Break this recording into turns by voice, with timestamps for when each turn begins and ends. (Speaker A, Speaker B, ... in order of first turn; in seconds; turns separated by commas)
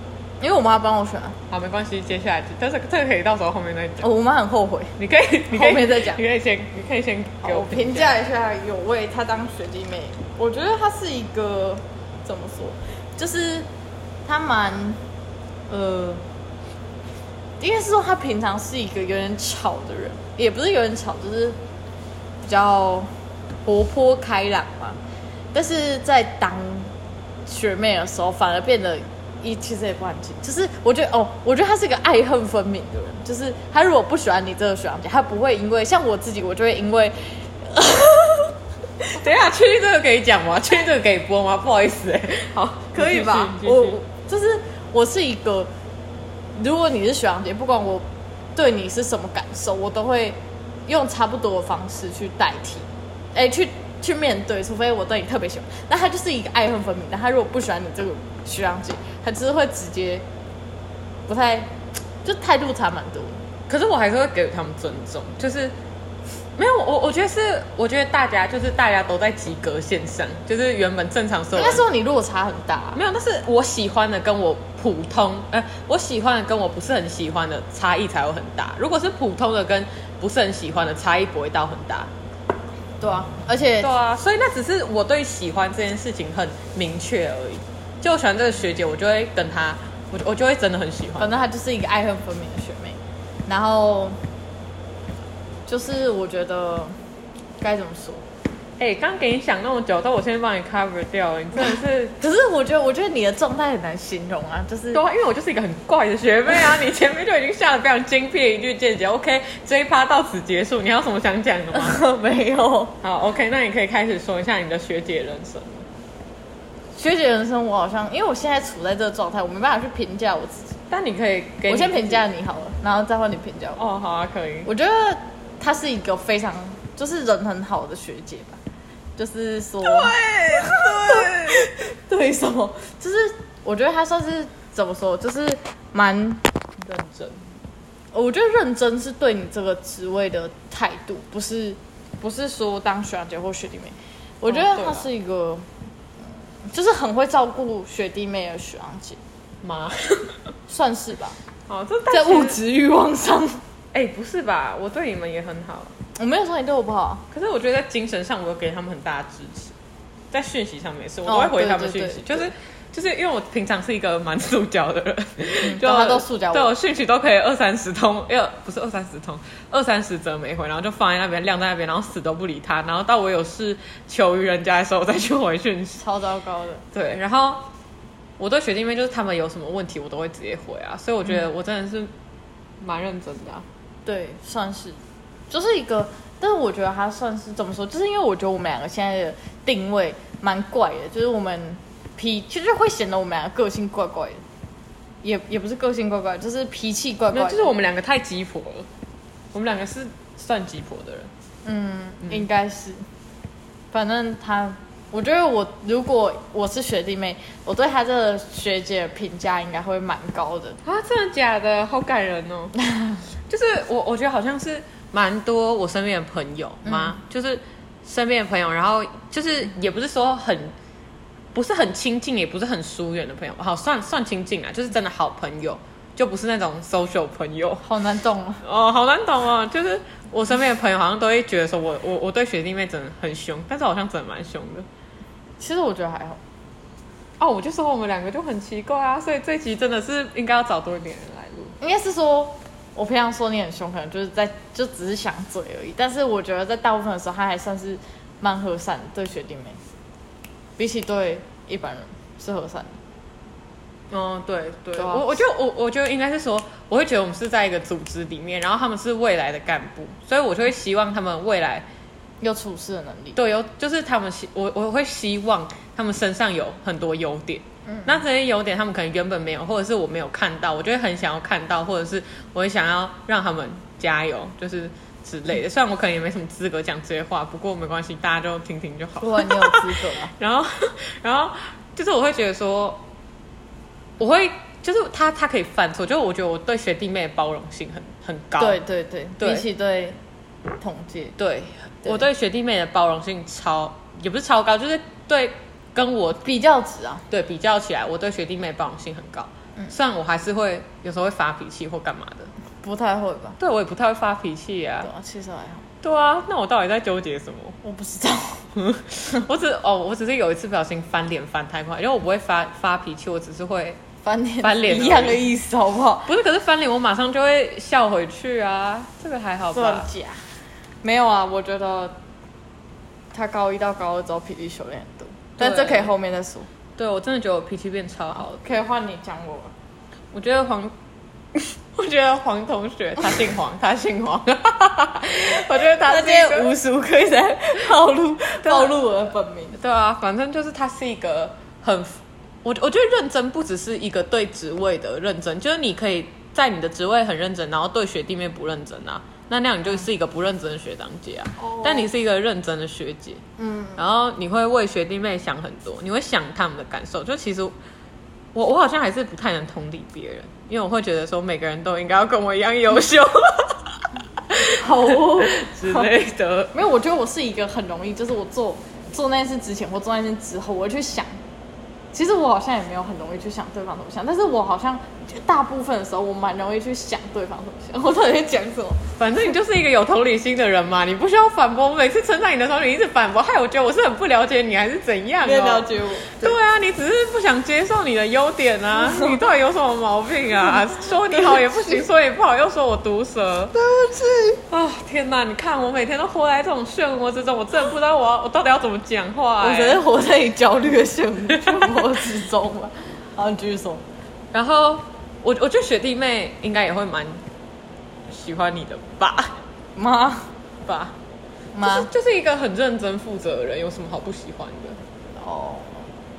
Speaker A: 0.4-1.4, Speaker B: 1.5-4.1, Speaker A: 4.0-5.0, Speaker B: 5.0-8.2, Speaker A: 5.5-6.2, Speaker A: 7.4-13.7, Speaker A: 14.2-15.0, Speaker A: 15.7-16.2, Speaker A: 17.6-21.6, Speaker A: 22.4-23.1, Speaker A: 23.6-25.0, Speaker A: 25.5-26.9, Speaker A: 27.4-38.5, Speaker B: 39.1-44.0, Speaker A: 42.9-45.7, Speaker A: 46.5-60.2, Speaker A: 61.3-61.7, Speaker A: 62.2-63.4, Speaker B: 63.7-65.7, Speaker B: 66.6-71.8, Speaker A: 71.5-73.0, Speaker B: 72.9-82.1, Speaker A: 83.0-83.9, Speaker B: 83.8-91.4, Speaker A: 91.2-94.2, Speaker A: 95.7-96.9, Speaker A: 97.6-98.2, Speaker B: 98.8-102.2, Speaker A: 102.2-105.0, Speaker B: 104.9-112.0, Speaker A: 111.7-113.0, Speaker B: 113.0-115.9, Speaker A: 116.9-120.8, Speaker B: 120.9-122.2, Speaker A: 121.7-123.8, Speaker B: 123.8-124.7, Speaker A: 124.7-128.6, Speaker A: 129.2-136.4, Speaker B: 129.8-131.8, Speaker B: 136.9-137.4, Speaker A: 138.1-145.7, Speaker B: 144.5-145.1, Speaker A: 146.6-149.2, Speaker B: 149.6-150.4, Speaker A: 150.7-151.4, Speaker B: 151.7-152.6, Speaker A: 152.1-153.6, Speaker B: 153.9-155.9, Speaker A: 156.2-157.2, Speaker B: 157.3-159.7, Speaker B: 160.3-176.0, Speaker A: 161.2-162.5, Speaker A: 165.6-166.7, Speaker A: 176.0-176.8, Speaker B: 176.9-177.6, Speaker B: 178.4-182.1, Speaker B: 182.8-183.7, Speaker A: 184.0-194.4, Speaker A: 195.2-197.7, Speaker B: 197.3-198.9, Speaker B: 199.5-201.3, Speaker A: 201.6-203.0, Speaker A: 203.9-210.8, Speaker B: 210.8-212.8, Speaker B: 213.5-220.7, Speaker A: 216.8-217.1, Speaker B: 221.5-227.8, Speaker A: 227.8-228.6, Speaker B: 228.6-234.9, Speaker A: 235.6-236.4, Speaker B: 237.4-241.8, Speaker A: 241.8-249.8, Speaker A: 250.8-253.0, Speaker B: 254.1-261.9, Speaker A: 254.9-255.4, Speaker A: 262.4-263.4, Speaker B: 263.4-283.0, Speaker A: 267.9-268.1, Speaker A: 279.2-280.3, Speaker B: 284.2-288.8, Speaker A: 288.6-290.2, Speaker B: 289.4-289.6, Speaker A: 290.8-291.4, Speaker B: 291.4-296.4, Speaker A: 296.4-297.2, Speaker B: 297.3-302.5, Speaker A: 302.8-303.6, Speaker B: 303.6-305.1, Speaker A: 305.0-305.9, Speaker B: 306.0-307.8, Speaker A: 307.8-308.7, Speaker B: 308.7-314.0, Speaker A: 314.2-316.3, Speaker B: 314.6-315.4, Speaker B: 316.2-320.1, Speaker A: 319.7-320.4, Speaker A: 321.0-322.1, Speaker A: 323.3-326.7, Speaker B: 325.6-326.1, Speaker B: 327.0-328.7, Speaker A: 328.4-329.7, Speaker B: 330.3-330.9, Speaker B: 331.5-336.7, Speaker A: 335.5-339.8, Speaker B: 338.6-338.9, Speaker B: 339.8-353.4, Speaker A: 351.6-352.1, Speaker A: 353.6-354.0, Speaker B: 353.9-357.7, Speaker B: 358.5-366.7, Speaker A: 364.6-366.1, Speaker A: 366.7-371.4, Speaker A: 372.1-379.0, Speaker B: 379.2-393.7, Speaker A: 385.4-386.5, Speaker A: 388.9-389.4, Speaker A: 391.3-391.8, Speaker A: 393.7-394.6, Speaker B: 394.7-400.0, Speaker A: 399.6-404.0, Speaker B: 401.5-402.0, Speaker B: 404.5-407.4, Speaker B: 408.3-409.6, Speaker A: 409.9-410.5, Speaker B: 410.9-411.1, Speaker A: 411.7-412.1, Speaker B: 411.8-415.0, Speaker A: 415.4-416.1